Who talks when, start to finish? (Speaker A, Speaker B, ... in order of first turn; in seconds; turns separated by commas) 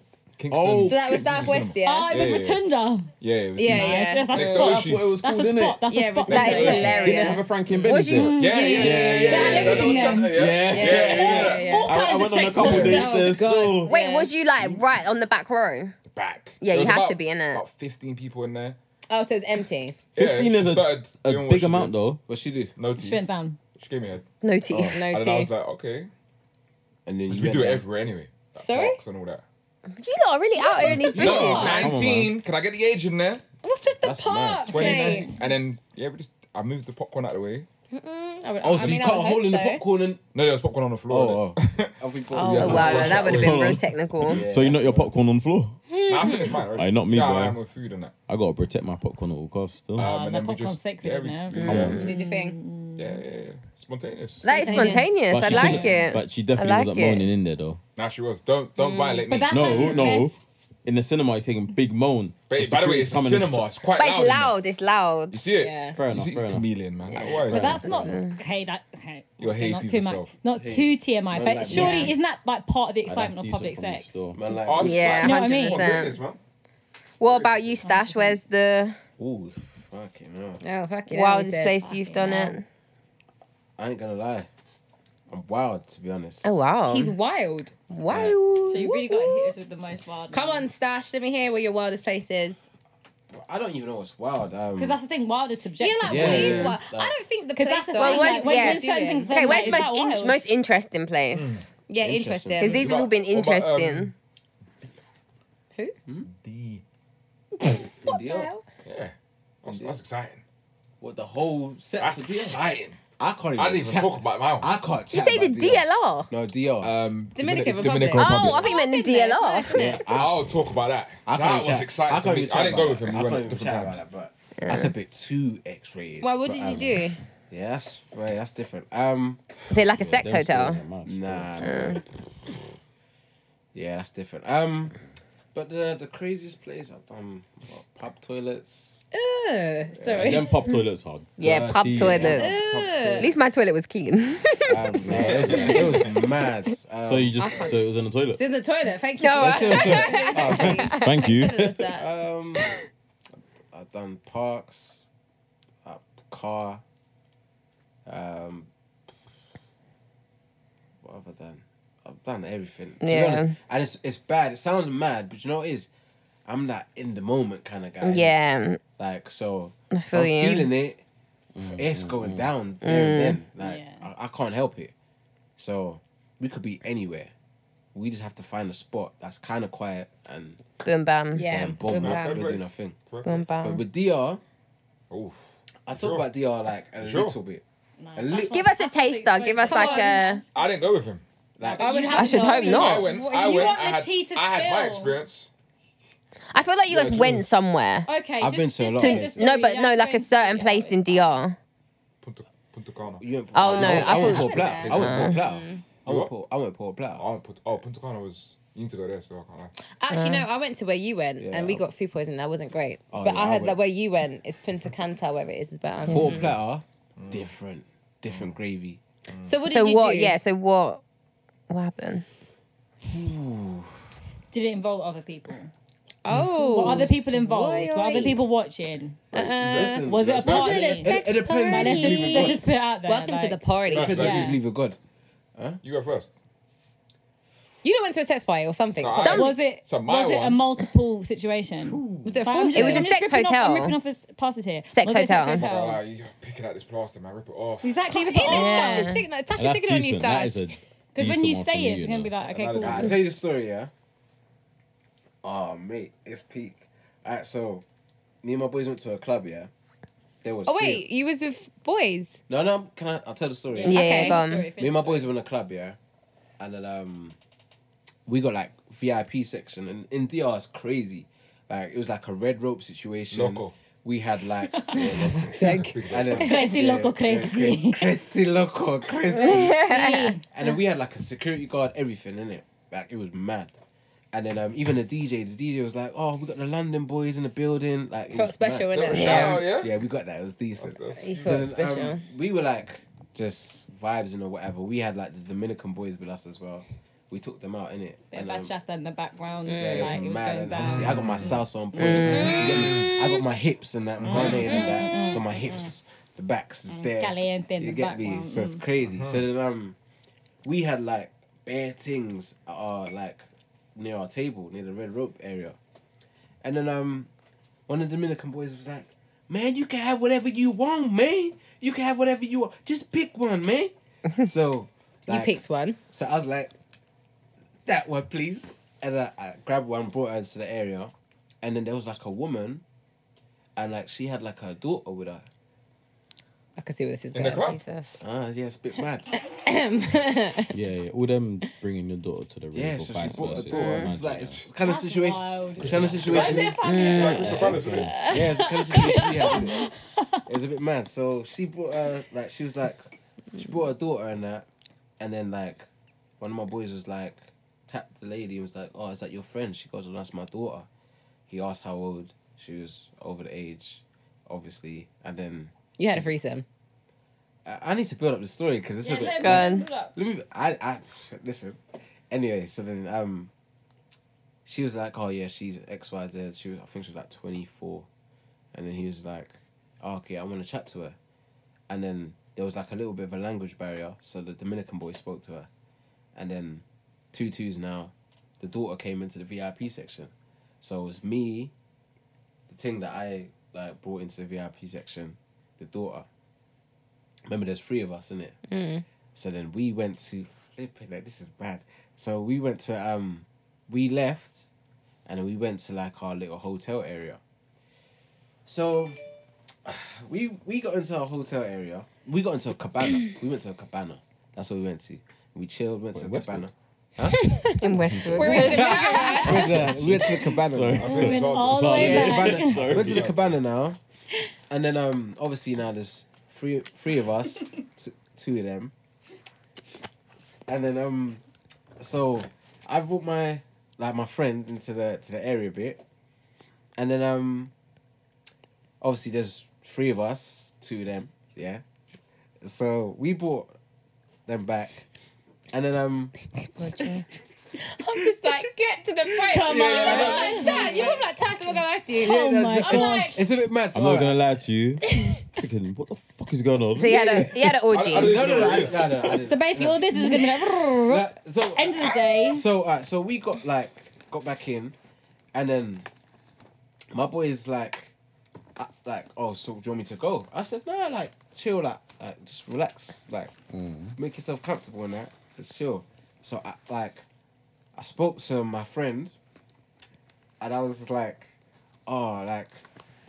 Speaker A: 0.4-2.6, Speaker B: 0.5-1.3, Speaker C: 0.8-2.3, Speaker D: 1.9-3.1, Speaker A: 3.2-5.2, Speaker C: 3.6-4.5, Speaker D: 3.7-7.2, Speaker B: 4.4-5.8, Speaker C: 5.9-7.5, Speaker A: 6.3-6.9, Speaker E: 6.3-8.7, Speaker B: 6.9-13.9, Speaker D: 8.2-10.3, Speaker A: 8.4-11.9, Speaker C: 8.4-12.0, Speaker D: 11.1-13.3, Speaker C: 12.6-14.3, Speaker F: 12.6-13.0, Speaker E: 13.8-15.9, Speaker A: 16.1-18.8, Speaker E: 16.6-17.6, Speaker C: 19.1-20.0, Speaker A: 20.1-22.1, Speaker B: 20.2-22.2, Speaker F: 22.3-22.7, Speaker A: 22.8-23.2, Speaker D: 23.0-23.6, Speaker A: 23.8-24.2, Speaker E: 24.4-25.0, Speaker A: 24.8-26.1, Speaker C: 24.9-25.5, Speaker F: 27.1-27.8, Speaker A: 27.3-29.4, Speaker C: 28.6-29.0, Speaker E: 30.0-31.9, Speaker C: 30.6-31.9, Speaker A: 30.8-33.4, Speaker B: 31.2-32.3, Speaker D: 33.6-35.4, Speaker F: 34.0-35.1, Speaker C: 34.7-35.3, Speaker A: 34.7-37.7, Speaker C: 37.9-39.8, Speaker F: 38.6-40.2, Speaker A: 40.3-43.8, Speaker F: 41.1-43.5, Speaker C: 42.4-42.8, Speaker E: 42.4-44.5, Speaker B: 43.2-45.8, Speaker F: 44.2-45.1, Speaker C: 45.9-46.6, Speaker A: 46.1-48.1, Speaker B: 46.7-47.6, Speaker B: 48.3-50.1, Speaker A: 50.0-52.0, Speaker D: 50.0-53.2, Speaker B: 51.7-52.0, Speaker E: 51.7-52.1, Speaker C: 52.0-52.5, Speaker A: 53.0-54.5, Speaker E: 54.4-57.3, Speaker C: 54.5-55.1, Speaker D: 54.6-56.0, Speaker B: 55.3-57.8, Speaker A: 58.0-60.1, Speaker C: 58.8-59.3, Speaker D: 59.3-60.7, Speaker B: 59.5-63.7, Speaker A: 62.5-64.6, Speaker E: 64.0-65.4, Speaker A: 65.3-67.8, Speaker C: 65.5-66.0, Speaker B: 65.9-66.7, Speaker B: 67.3-68.0, Speaker D: 67.5-74.2, Speaker E: 67.9-68.4, Speaker A: 69.4-70.3, Speaker F: 70.5-72.2, Speaker C: 71.7-72.1, Speaker B: 73.0-74.4, Speaker F: 74.3-75.4, Speaker A: 74.7-76.4, Speaker E: 74.8-76.2, Speaker D: 75.2-75.9, Speaker E: 77.2-79.0, Speaker A: 77.2-77.8, Speaker D: 77.8-78.4, Speaker F: 79.2-80.6, Speaker C: 80.6-81.8, Speaker E: 81.1-82.7, Speaker D: 81.8-82.6, Speaker F: 83.8-84.5, Speaker F: 85.3-86.7, Speaker E: 86.4-87.1, Speaker C: 86.8-87.8, Speaker E: 87.9-88.9, Speaker D: 88.7-90.7, Speaker C: 88.8-89.5, Speaker C: 90.3-92.6, Speaker F: 93.3-95.0, Speaker D: 94.8-96.5, Speaker C: 95.8-99.9, Speaker F: 96.1-97.2, Speaker E: 96.3-96.8, Speaker D: 97.6-100.4, Speaker E: 98.0-101.6, Speaker A: 101.3-101.7, Speaker C: 101.9-102.9, Speaker F: 102.0-102.9, Speaker E: 102.6-104.1, Speaker A: 102.8-104.1, Speaker A: 106.3-106.8, Speaker C: 107.6-108.6, Speaker F: 108.0-108.5, Speaker A: 108.8-110.4, Speaker F: 109.7-110.0, Speaker F: 111.0-116.9, Speaker A: 112.0-113.0, Speaker A: 113.6-114.7, Speaker E: 115.1-116.3, Speaker A: 116.8-118.7, Speaker C: 117.4-120.0, Speaker E: 118.1-120.0, Speaker F: 119.7-120.4, Speaker A: 120.1-124.0, Speaker F: 121.3-129.4, Speaker E: 124.6-124.9, Speaker C: 126.2-127.2, Speaker E: 129.7-130.9, Speaker B: 130.0-132.0, Speaker F: 131.0-132.1, Speaker E: 131.6-132.0, Speaker F: 133.7-135.0, Speaker F: 135.5-139.1, Speaker C: 139.1-140.6, Speaker F: 139.9-140.5, Speaker B: 140.2-142.4, Speaker E: 141.4-142.6, Speaker F: 141.4-143.5, Speaker C: 142.3-143.4, Speaker E: 143.2-145.0, Speaker F: 144.7-147.6, Speaker A: 145.1-146.3, Speaker B: 145.2-145.6, Speaker E: 145.7-146.2, Speaker B: 147.0-148.4, Speaker C: 147.4-147.8, Speaker C: 148.3-152.1, Speaker E: 149.2-151.2, Speaker F: 149.4-151.0, Speaker B: 150.6-151.9, Speaker F: 151.9-152.7, Speaker F: 153.7-155.0, Speaker F: 155.8-156.8, Speaker F: 158.1-158.7, Speaker F: 161.0-165.9, Speaker E: 163.0-163.6, Speaker F: 166.5-168.4, Speaker E: 168.0-168.8, Speaker F: 169.0-171.0, Speaker E: 169.9-170.7, Speaker B: 171.6-172.5, Speaker F: 171.6-174.9, Speaker E: 172.8-173.4, Speaker D: 173.6-174.1, Speaker F: 175.6-177.3, Speaker F: 177.9-180.6, Speaker E: 180.8-181.5, Speaker C: 181.3-182.4, Speaker F: 181.4-183.1, Speaker A: 181.8-183.5, Speaker E: 183.2-183.8, Speaker F: 183.6-184.4, Speaker A: 185.1-186.3, Speaker F: 185.9-187.6, Speaker A: 187.0-187.4, Speaker D: 188.0-190.5, Speaker F: 188.2-188.5, Speaker E: 188.5-190.4, Speaker C: 189.7-190.2, Speaker A: 190.5-191.2, Speaker F: 191.6-192.4, Speaker D: 191.6-195.2, Speaker C: 191.7-193.8, Speaker E: 192.2-193.1, Speaker A: 192.7-195.5, Speaker E: 196.5-198.1, Speaker A: 196.9-197.5, Speaker D: 198.1-201.3, Speaker F: 198.4-199.5, Speaker E: 199.0-201.6, Speaker A: 202.2-203.2, Speaker F: 203.2-207.2, Speaker E: 203.5-205.4, Speaker C: 203.8-205.8, Speaker A: 206.1-206.3, Speaker A: 207.2-209.7, Speaker C: 210.0-216.5, Speaker E: 210.1-210.5, Speaker F: 211.4-211.8, Speaker F: 213.1-213.8, Speaker F: 216.1-219.0, Speaker E: 216.1-216.4, Speaker A: 217.2-217.5, Speaker A: 219.3-219.6, Speaker C: 219.4-220.4, Speaker E: 219.7-221.0, Speaker E: 221.7-222.2, Speaker F: 223.1-224.0, Speaker D: 224.5-225.7, Speaker C: 226.2-228.4, Speaker D: 226.5-234.6, Speaker F: 229.3-232.7, Speaker C: 229.3-234.2, Speaker A: 229.6-231.1, Speaker A: 233.8-234.6, Speaker F: 233.8-235.0, Speaker A: 235.8-236.3, Speaker C: 237.8-239.6, Speaker A: 239.0-240.6, Speaker D: 239.2-246.0, Speaker A: 241.9-242.3, Speaker C: 242.2-243.1, Speaker E: 242.7-244.0, Speaker E: 244.9-245.7, Speaker A: 245.5-248.1, Speaker D: 247.8-249.2, Speaker C: 248.1-250.7, Speaker E: 248.4-249.2, Speaker B: 249.6-252.3, Speaker D: 251.2-253.2, Speaker A: 252.5-253.2, Speaker F: 252.8-253.9, Speaker F: 255.4-257.8, Speaker F: 258.4-259.7, Speaker F: 260.4-261.0, Speaker C: 260.7-262.4, Speaker F: 262.5-264.1, Speaker D: 263.7-265.3, Speaker E: 263.8-264.7, Speaker C: 263.9-264.4, Speaker F: 264.7-266.0, Speaker F: 266.6-267.4, Speaker F: 268.3-279.9, Speaker A: 273.3-273.7, Speaker D: 274.7-275.1, Speaker A: 275.0-276.5, Speaker C: 275.4-276.7, Speaker D: 276.4-278.1, Speaker E: 279.4-280.3, Speaker D: 279.8-280.4, Speaker F: 280.4-283.8, Speaker F: 284.3-298.7, Speaker C: 288.3-289.7, Speaker A: 288.9-290.0, Speaker E: 289.1-289.6, Speaker A: 290.8-291.7, Speaker C: 291.2-292.2, Speaker D: 298.3-301.2, Speaker C: 299.7-300.2, Speaker F: 299.8-310.0, Speaker A: 300.8-303.2, Speaker C: 302.0-303.4, Speaker A: 304.2-304.7, Speaker D: 304.3-305.9, Speaker C: 304.6-305.2, Speaker D: 306.9-308.8, Speaker A: 309.0-309.5, Speaker F: 310.6-315.8, Speaker F: 316.6-317.3, Speaker F: 317.9-326.7, Speaker C: 325.3-326.0, Speaker F: 327.9-332.8, Speaker F: 333.8-335.5, Speaker C: 336.8-337.8, Speaker A: 337.3-337.8, Speaker E: 337.6-338.2, Speaker F: 338.2-339.4, Speaker C: 339.4-340.8, Speaker B: 340.7-344.6, Speaker F: 342.7-349.9, Speaker E: 343.7-344.1, Speaker A: 344.3-344.6, Speaker D: 344.8-347.8, Speaker B: 345.8-346.3, Speaker A: 346.3-348.3, Speaker E: 346.8-347.8, Speaker B: 347.4-348.2, Speaker C: 347.9-349.7, Speaker D: 348.9-350.4, Speaker F: 350.5-354.7, Speaker F: 355.2-355.9, Speaker F: 356.4-360.9, Speaker F: 361.5-366.3, Speaker C: 366.0-366.6, Speaker F: 367.7-371.8, Speaker D: 369.0-370.1, Speaker E: 369.4-369.9, Speaker F: 372.3-373.5, Speaker F: 374.7-378.1, Speaker F: 378.7-381.2, Speaker F: 381.9-385.7, Speaker F: 386.4-391.7, Speaker F: 392.7-396.3, Speaker F: 397.5-398.6, Speaker C: 398.7-399.1, Speaker F: 399.4-404.7, Speaker F: 405.3-407.4, Speaker F: 408.7-409.2, Speaker F: 409.9-417.5, Speaker B: 416.1-416.7, Speaker C: 417.3-417.7, Speaker E: 417.7-419.7, Speaker B: 418.1-418.6, Speaker C: 418.3-419.9, Speaker F: 418.5-421.4, Speaker D: 418.6-419.4, Speaker B: 419.5-423.4, Speaker A: 420.9-423.6, Speaker D: 421.0-422.8, Speaker F: 421.9-424.0, Speaker E: 421.9-422.3, Speaker F: 424.7-428.9, Speaker F: 430.7-431.4, Speaker F: 432.0-436.0, Speaker F: 437.0-437.7, Speaker F: 439.0-441.8, Speaker F: 442.6-443.7, Speaker F: 444.5-445.1, Speaker F: 445.7-446.3, Speaker E: 446.8-447.2, Speaker C: 447.8-453.5, Speaker D: 449.5-451.1, Speaker F: 449.6-454.4, Speaker D: 452.2-453.4, Speaker B: 453.9-457.5, Speaker C: 455.1-455.4, Speaker E: 456.9-458.4, Speaker F: 457.1-464.9, Speaker A: 457.7-459.3, Speaker D: 459.4-462.7, Speaker F: 465.5-466.1, Speaker F: 467.1-468.1, Speaker F: 468.8-473.5, Speaker B: 473.7-474.2, Speaker F: 474.2-477.2, Speaker F: 478.0-479.3, Speaker F: 480.6-481.5, Speaker F: 482.1-482.8